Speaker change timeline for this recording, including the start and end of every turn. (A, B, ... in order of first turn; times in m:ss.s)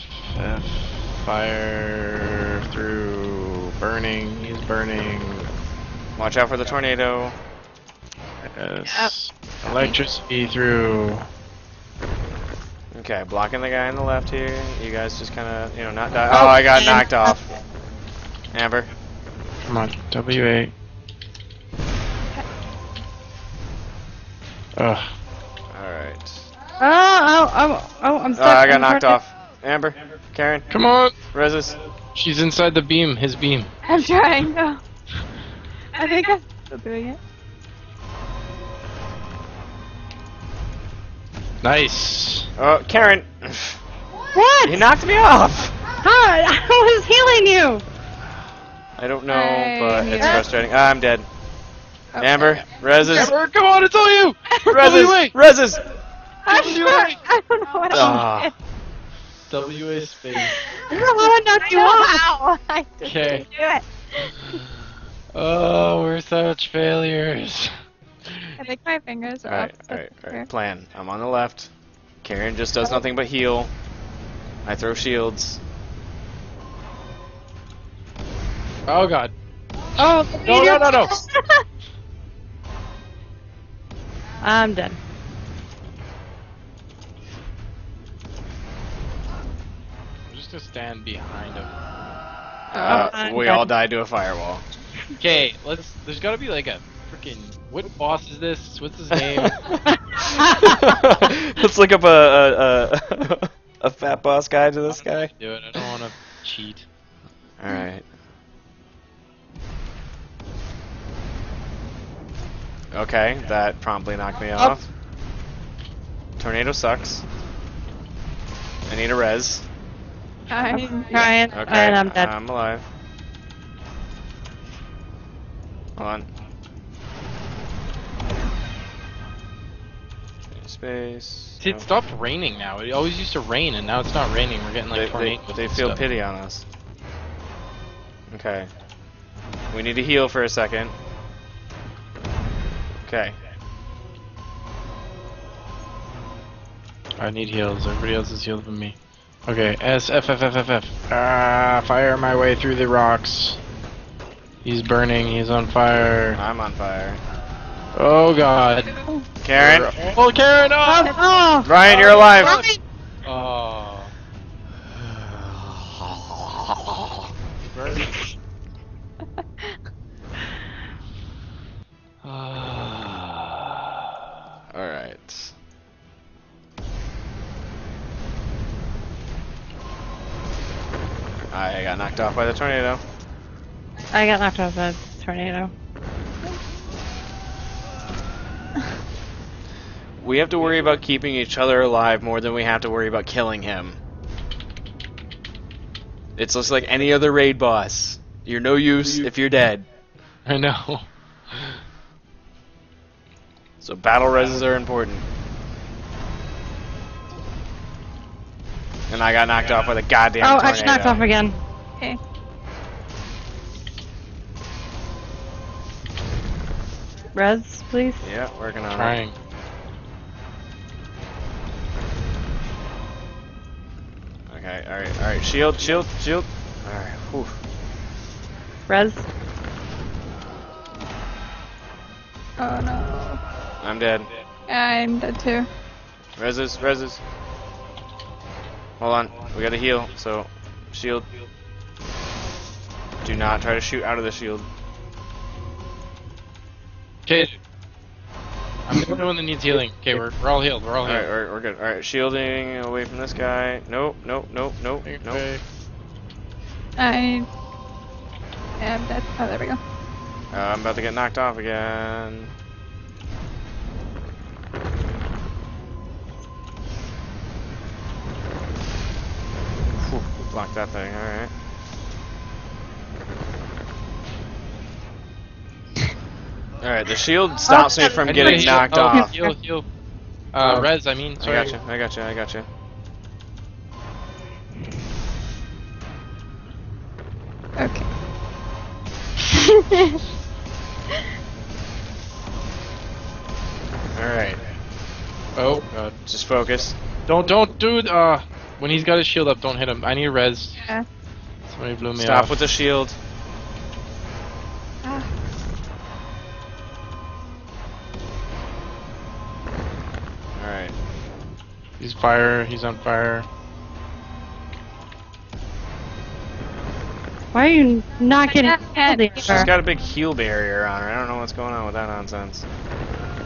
0:00.3-0:05.5 A
0:06.2-0:07.4 B
0:08.4-0:11.3 A
0:08.9-0:09.1 C
0:09.6-0:10.0 C
0:12.9-0:17.5 B
0:16.3-0:17.4 D
0:18.5-0:18.9 B
0:19.6-0:20.7 A
0:24.7-0:25.1 A
0:25.7-0:26.4 B
0:26.8-0:29.2 D
0:28.4-0:30.7 B
0:30.7-0:31.2 A
0:31.3-0:31.8 B
0:32.1-0:33.7 A
0:33.8-0:34.8 C
0:35.9-0:37.2 C
0:41.6-0:42.5 A
0:42.6-0:43.8 B
0:44.3-0:44.8 D
0:44.6-0:45.8 B
0:46.0-0:47.8 D
0:49.0-0:51.3 B
0:49.3-0:50.5 C
0:50.2-0:50.4 D
0:52.1-0:52.6 C
0:52.2-0:53.3 B
0:53.0-0:55.4 A
0:54.5-0:55.0 C
0:54.7-0:55.8 B
0:56.4-0:58.5 C
0:56.5-0:57.2 A
0:57.9-0:58.5 B
0:59.5-1:00.6 A
1:00.6-1:04.4 C
1:00.9-1:02.2 D
1:03.0-1:03.4 A
1:05.3-1:07.7 A
1:08.2-1:08.6 A
1:08.6-1:10.5 C
1:09.5-1:11.7 B
1:12.2-1:13.7 B
1:14.6-1:15.6 B
1:18.9-1:19.3 A
1:20.0-1:20.9 D
1:20.0-1:21.2 A
1:21.2-1:21.6 C
1:24.4-1:25.0 D
1:30.2-1:31.7 A
1:32.7-1:34.6 B
1:32.7-1:33.7 D
1:32.8-1:33.1 C
1:35.2-1:39.7 A
1:39.1-1:45.3 B
1:40.4-1:40.8 D
1:44.9-1:46.8 A
1:47.6-1:48.0 B
1:52.9-1:54.8 B
1:56.4-1:57.2 B
1:58.9-1:59.6 B
2:00.5-2:01.3 C
2:00.7-2:02.3 D
2:01.5-2:02.8 B
2:06.0-2:06.3 B
2:10.5-2:11.9 B
2:11.6-2:16.1 A
2:14.9-2:16.6 B
2:18.3-2:18.7 B
2:19.7-2:20.9 B
2:23.0-2:23.4 B
2:27.2-2:33.6 A
2:34.6-2:36.4 A
2:36.3-2:37.2 B
2:37.9-2:39.0 A
2:39.4-2:39.9 B
2:39.5-2:41.1 A
2:40.8-2:41.7 D
2:41.6-2:42.6 B
2:41.8-2:42.7 A
2:42.3-2:42.8 D
2:43.2-2:44.1 A
2:45.0-2:47.3 B
2:47.7-2:48.1 A
2:52.2-2:53.7 B
2:54.7-2:55.5 B
3:01.5-3:03.0 B
3:04.1-3:05.7 D
3:10.2-3:14.0 B
3:16.4-3:19.8 B
3:20.4-3:21.8 A
3:23.8-3:25.2 B
3:29.1-3:31.2 B
3:30.4-3:31.6 D
3:37.3-3:38.3 D
3:38.2-3:39.2 B
3:38.9-3:39.4 A
3:44.5-3:47.6 B
3:48.9-3:49.2 D
3:52.6-3:53.4 C
3:53.8-3:54.3 B
3:54.7-3:55.7 C
3:56.4-3:57.2 B
3:59.0-4:01.3 B
4:03.2-4:04.6 B
4:07.2-4:07.6 A
4:08.8-4:11.3 A
4:11.0-4:15.4 B
4:15.0-4:15.6 A
4:17.0-4:17.5 C
4:18.8-4:19.8 C
4:20.5-4:22.5 B
4:30.0-4:31.5 B
4:36.8-4:39.3 B
4:37.7-4:39.2 D
4:38.2-4:39.9 A
4:40.5-4:41.7 A
4:40.6-4:42.7 B
4:47.8-4:48.0 C
4:49.5-4:50.2 C
4:54.2-4:54.6 B
4:55.5-4:56.1 A
4:56.3-4:56.9 B
4:57.3-5:00.8 A
5:00.8-5:01.0 C
5:01.7-5:02.6 A
5:02.1-5:03.2 B
5:05.0-5:05.3 C
5:10.6-5:10.9 B
5:12.0-5:13.5 A
5:17.5-5:19.7 D
5:18.5-5:19.7 C
5:19.4-5:22.6 B